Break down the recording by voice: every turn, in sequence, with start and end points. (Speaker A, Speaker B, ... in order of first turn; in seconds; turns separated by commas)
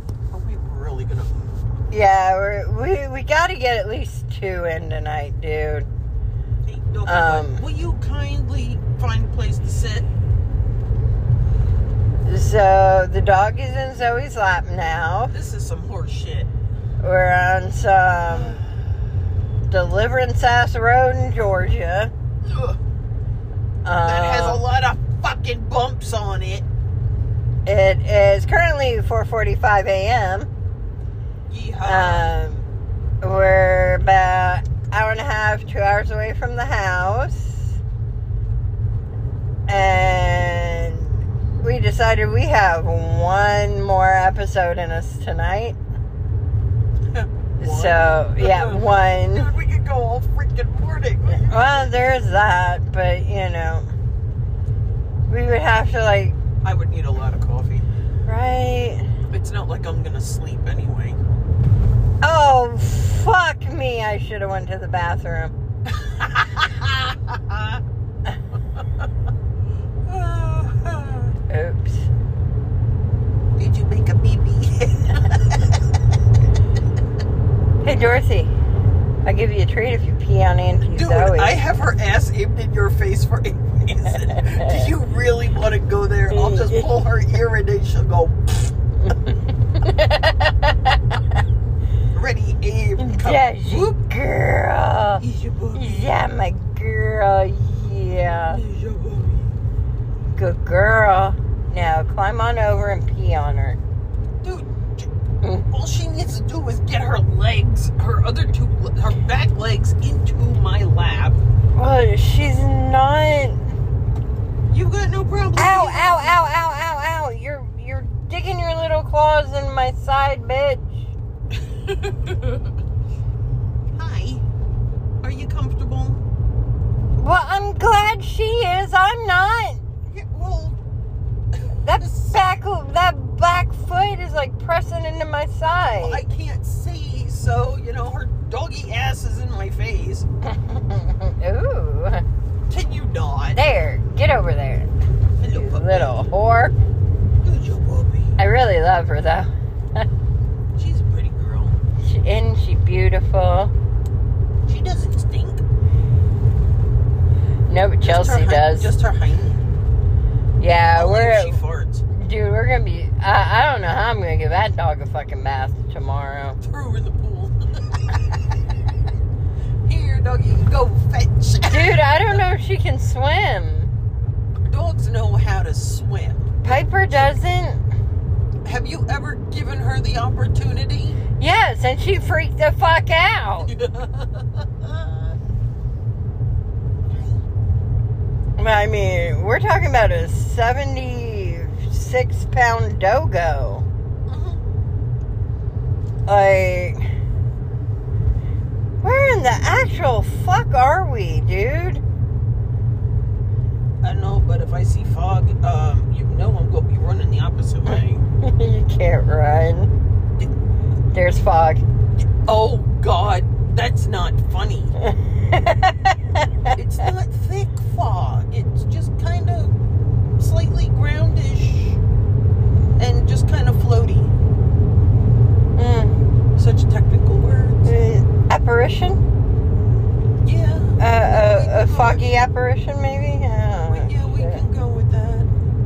Speaker A: 0.3-1.3, Speaker B: 1.9-5.9, Speaker A: 6.7-10.1, Speaker B: 7.1-7.6, Speaker B: 12.2-15.3, Speaker A: 15.3-16.5, Speaker B: 17.0-18.6, Speaker B: 19.7-22.1, Speaker A: 22.4-22.8, Speaker B: 23.9-24.6, Speaker A: 24.0-26.7, Speaker B: 27.7-30.5, Speaker A: 31.5-32.3, Speaker B: 31.8-32.6, Speaker B: 33.2-37.8, Speaker B: 39.7-45.8, Speaker A: 47.1-52.0, Speaker B: 47.6-49.5, Speaker B: 51.3-53.9, Speaker B: 55.3-56.4, Speaker A: 56.6-57.9, Speaker B: 58.3-59.1, Speaker A: 59.3-61.2, Speaker B: 62.2-65.5, Speaker A: 65.9-67.8, Speaker A: 70.1-71.3, Speaker B: 71.5-72.1, Speaker A: 73.6-75.8, Speaker B: 77.8-78.5, Speaker B: 79.2-81.6, Speaker A: 80.8-88.8, Speaker B: 84.4-84.9, Speaker B: 86.3-87.0, Speaker B: 89.0-91.2, Speaker A: 92.1-94.0, Speaker B: 93.0-95.2, Speaker A: 95.2-96.1, Speaker B: 95.7-98.6, Speaker A: 98.5-99.6, Speaker B: 100.3-103.8, Speaker A: 104.4-105.1, Speaker A: 105.7-111.4, Speaker B: 111.8-113.6, Speaker A: 114.7-116.4, Speaker B: 115.6-121.0, Speaker A: 121.5-122.7, Speaker A: 124.0-124.4, Speaker A: 125.2-126.2, Speaker B: 127.2-129.8, Speaker A: 130.1-130.8, Speaker A: 131.6-132.4, Speaker B: 131.8-136.2, Speaker A: 136.0-140.3, Speaker B: 140.4-142.2, Speaker A: 142.7-143.6, Speaker B: 143.5-144.9, Speaker A: 145.4-146.2, Speaker B: 145.5-146.7, Speaker A: 147.4-148.4, Speaker B: 148.4-150.1, Speaker A: 150.8-151.8, Speaker B: 152.0-153.7, Speaker A: 154.7-155.6, Speaker B: 157.7-158.9, Speaker A: 158.0-159.7, Speaker B: 160.6-161.6, Speaker A: 161.0-162.0, Speaker B: 162.1-166.6, Speaker A: 166.6-168.5, Speaker A: 169.9-172.4, Speaker B: 171.7-173.9, Speaker A: 174.7-177.3, Speaker B: 176.6-177.8, Speaker A: 178.6-181.2, Speaker B: 181.4-183.7, Speaker A: 183.7-185.3, Speaker A: 187.1-187.4, Speaker B: 188.6-193.9, Speaker A: 194.3-194.6, Speaker B: 196.3-197.0, Speaker B: 199.0-202.0, Speaker A: 204.0-208.2, Speaker B: 208.4-209.9, Speaker B: 211.1-211.8, Speaker A: 212.4-215.0, Speaker B: 215.0-217.1, Speaker A: 216.7-219.8, Speaker A: 220.4-222.0, Speaker A: 223.0-224.3, Speaker B: 225.8-226.2, Speaker A: 226.6-227.9, Speaker B: 227.9-229.2, Speaker A: 230.4-232.3, Speaker B: 231.0-234.6, Speaker A: 233.9-235.5